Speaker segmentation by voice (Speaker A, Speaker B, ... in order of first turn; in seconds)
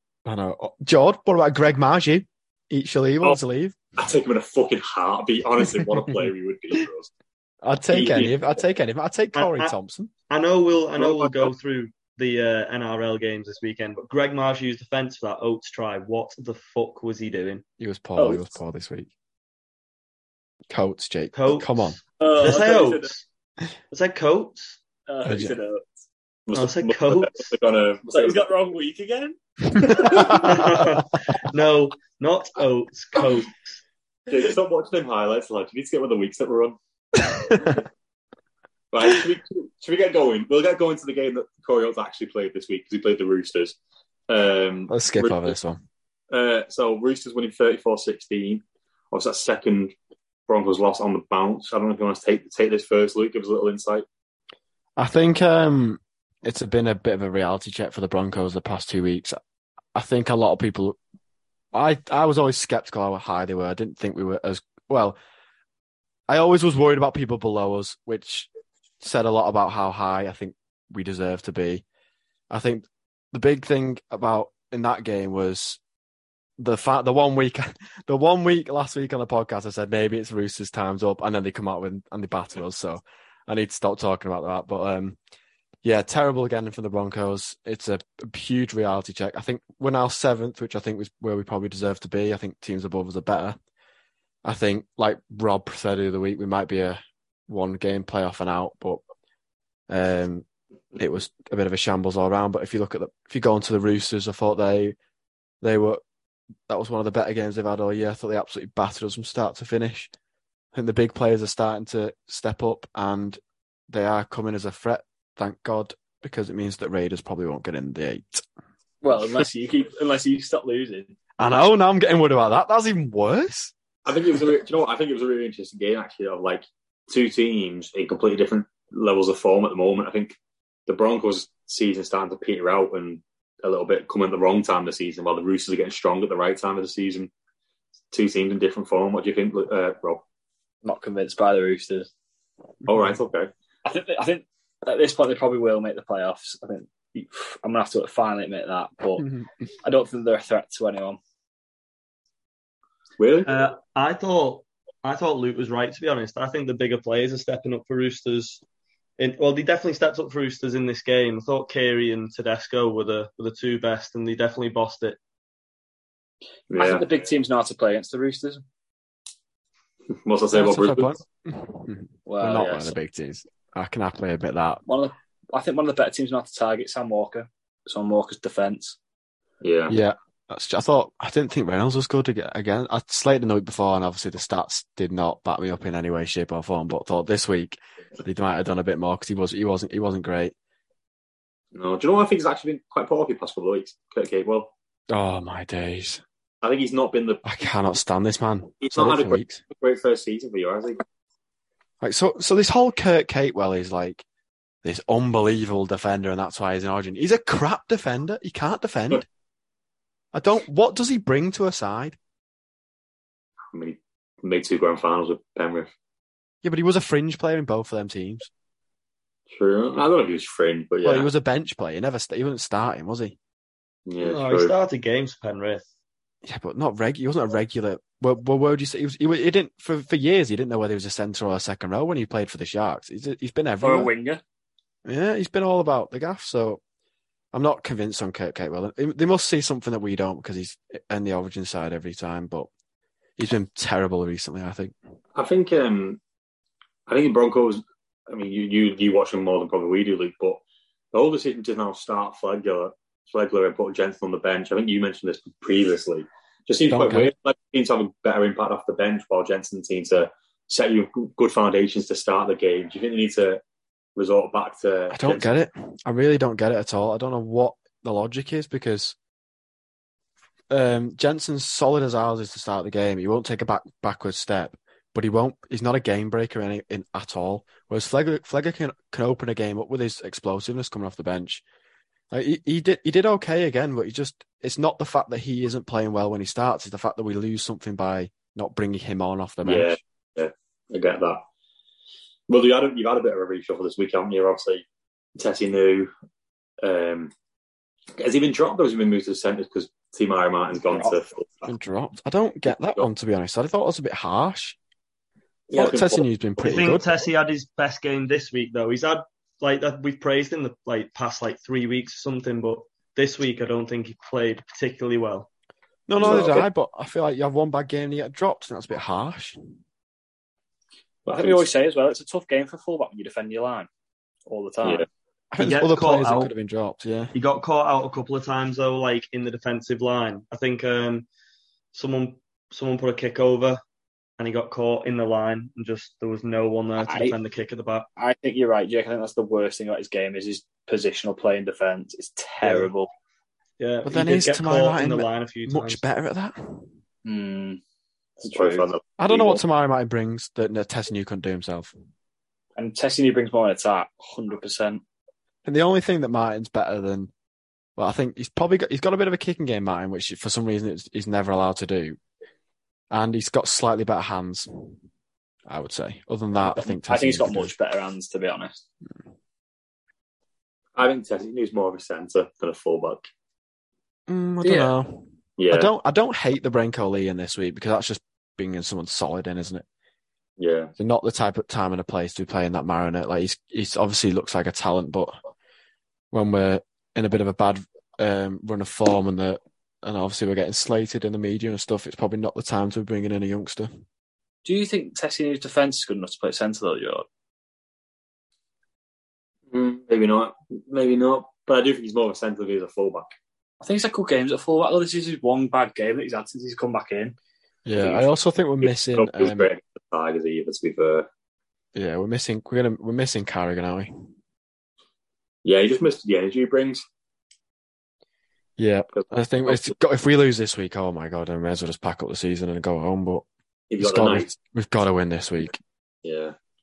Speaker A: 0.2-3.8, 7.6-10.1, 17.8-19.1, 20.7-22.0, 25.2-25.6, 29.7-30.7, 37.5-37.8, 44.9-45.8, 55.0-59.4, 59.9-61.0, 61.7-65.2, 66.3-68.5, 69.0-71.8, 72.5-75.8, 76.6-85.2, 85.8-93.6, 94.4-99.0, 99.9-100.4, 101.0-104.9, 105.6-106.0, 106.7-110.1, 110.7-118.4, 121.4-123.7, 149.2-149.5, 170.5-174.8, 179.9-190.5, 195.1-196.2, 197.4-199.6, 202.0-204.2, 204.8-209.2, 210.3-212.2, 216.6-218.5, 221.0-223.3, 226.4-234.1, 235.0-236.8, 237.5-242.7, 243.4-244.9, 256.9-257.3, 265.1-269.1, 270.7-281.6, 282.3-290.0, 301.6-304.8, 305.7-307.0, 316.1-319.7, 325.5-327.3, 344.0-346.9, 349.2-351.9, 355.6-357.3, 358.0-362.2, 363.1-365.0, 365.7-367.7, 374.3-379.8, 381.0-385.3, 386.3-393.9, 407.9-409.7, 411.9-414.3, 418.8-423.4, 424.0-425.8
Speaker B: 4.0-7.1, 7.9-8.3, 11.0-11.5, 26.5-28.4, 34.3-36.8, 38.9-43.8, 44.3-45.5, 46.3-49.9, 50.5-54.0, 124.0-130.3, 130.9-137.3, 138.1-140.2, 142.8-143.5, 153.2-153.5, 166.7-167.0, 170.2-171.2, 179.6-180.0, 191.7-194.7, 196.6-197.4, 198.8-201.0, 213.7-215.9, 219.5-221.3, 224.1-224.7, 245.3-246.2, 247.1-250.6, 251.1-263.6, 264.1-265.4, 289.6-291.4, 292.5-294.8, 295.4-296.1, 296.8-297.3, 298.2-301.7, 305.7-307.0, 316.2-316.7, 321.3-321.6, 348.4-349.6, 370.9-373.2, 375.6-375.9, 380.6-380.9, 399.7-403.3, 408.8-411.3, 415.6-417.0, 419.1-419.9, 423.9-424.5, 426.2-426.5
Speaker C: 9.3-9.7, 10.3-17.6, 21.3-23.2, 23.9-24.8, 26.5-27.5, 30.1-33.8, 153.4-158.6, 159.2-165.2, 224.2-225.8, 306.6-315.5, 325.6-326.5, 327.3-331.3, 331.9-333.8, 334.4-338.1, 342.6-342.9, 343.8-346.0
Speaker D: 18.2-18.5, 22.2-23.1, 25.1-25.9, 28.1-30.4, 119.0-121.2, 140.8-142.1, 143.8-149.3, 149.8-151.2, 166.7-168.6, 172.2-172.9, 174.9-179.0, 233.8-234.4, 321.3-323.9, 324.5-325.1, 337.0-337.4, 338.2-343.1, 347.2-347.8, 348.5-348.8, 352.8-355.0, 366.7-368.8, 374.6-374.9, 394.6-397.2, 403.8-407.4, 408.0-408.2